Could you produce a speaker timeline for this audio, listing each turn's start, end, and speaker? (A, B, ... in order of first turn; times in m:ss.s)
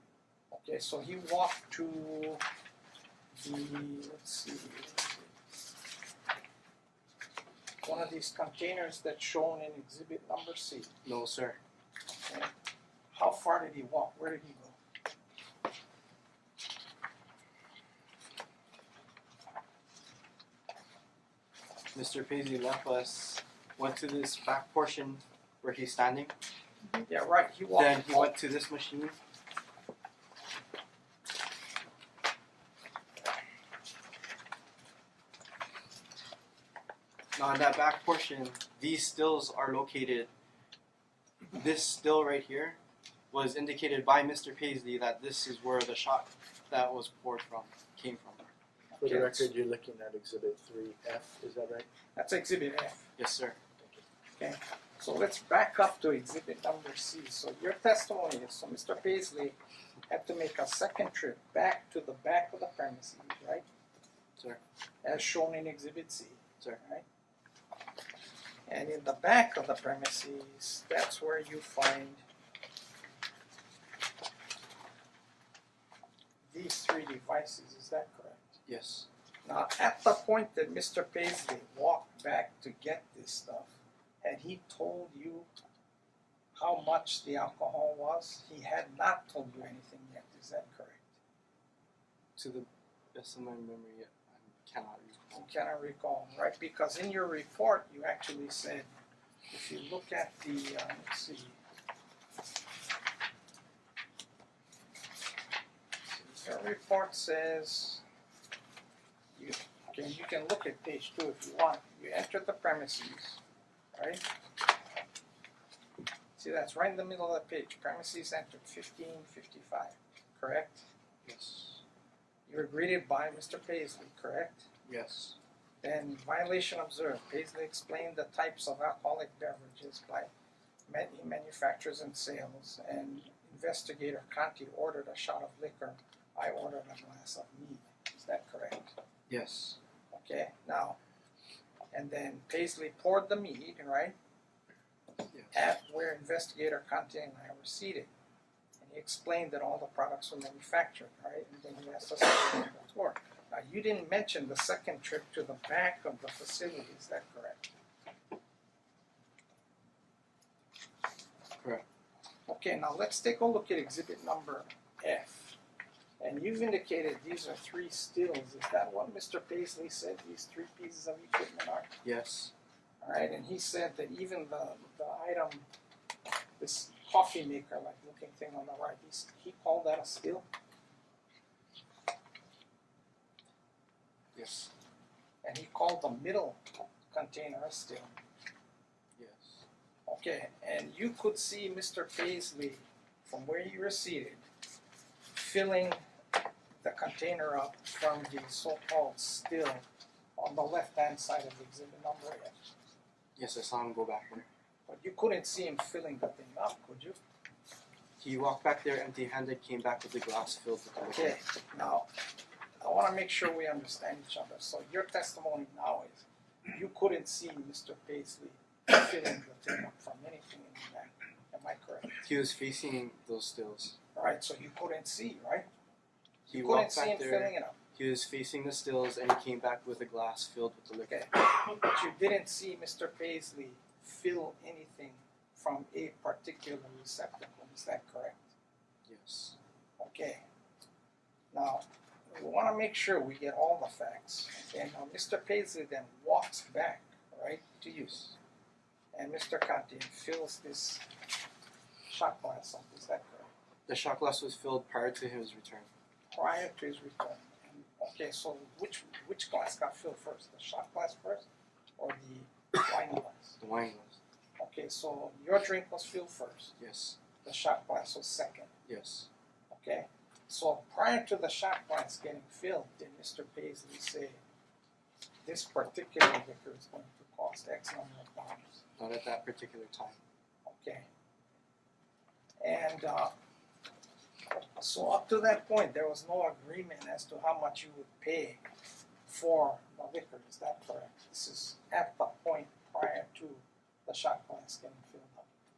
0:00.5-0:02.4 A
0:03.4-0:05.3 A
0:07.8-0:11.0 A
0:11.0-0:11.6 B
0:12.3-0:12.5 A
0:13.1-0:14.8 A
0:21.9-0:26.3 B
0:27.0-0:28.3 A
0:27.7-0:29.1 B
0:37.4-0:40.3 B
0:41.5-0:42.8 B
0:43.3-0:48.5 B
0:48.9-0:49.5 A
0:49.0-0:51.9 C
0:52.2-0:53.1 A
0:53.2-0:53.6 B
0:54.4-0:59.6 A
1:00.1-1:03.6 A
1:05.0-1:07.0 A
1:08.7-1:12.2 A
1:16.5-1:18.6 A
1:18.7-1:19.1 B
1:19.4-1:25.5 A
1:26.6-1:31.1 A
1:32.4-1:35.5 B
1:35.3-1:38.9 A
1:39.5-1:41.6 A
1:46.1-1:48.0 A
1:49.4-1:53.4 A
1:53.9-1:54.2 A
1:56.4-2:00.9 A
2:01.2-2:01.8 B
2:02.5-2:04.7 A
2:04.9-2:05.4 B
2:05.8-2:10.3 A
2:10.9-2:18.9 A
2:19.3-2:19.8 B
2:20.1-2:21.0 A
2:21.9-2:24.2 A
2:25.3-2:25.6 B
2:25.5-2:28.1 A
2:28.8-2:37.7 A
2:42.5-2:45.6 A
2:46.2-2:52.0 A
2:52.0-2:52.5 B
2:53.0-2:55.7 A
2:56.6-3:00.4 A
3:04.3-3:04.7 B
3:05.4-3:08.2 A
3:09.2-3:09.6 B
3:10.1-3:14.4 A
3:15.3-3:16.0 A
3:16.8-3:19.8 A
3:20.4-3:22.6 A
3:23.4-3:24.5 B
3:24.9-3:27.2 A
3:28.2-3:31.4 B
3:31.1-3:32.1 A
3:32.8-3:42.2 A
3:42.2-3:44.0 B
3:44.2-3:45.7 A
3:46.5-3:51.2 B
3:46.5-3:47.8 A
3:51.1-3:58.5 A
3:59.1-3:59.6 B
4:00.0-4:00.4 A
4:01.5-4:08.3 A
4:07.9-4:08.3 B
4:09.1-4:11.1 A
4:12.1-4:13.5 A
4:13.9-4:15.9 B
4:16.3-4:21.5 A
4:22.0-4:23.6 A
4:23.6-4:24.2 B
4:24.6-4:26.8 A
4:26.8-4:27.2 B
4:27.4-4:28.7 A
4:28.9-4:29.3 B
4:29.7-4:34.4 A
4:35.4-4:38.8 A
4:39.0-4:40.2 B
4:40.7-4:41.1 A
4:42.6-4:43.3 A
4:44.6-4:48.6 A
4:49.3-4:55.5 A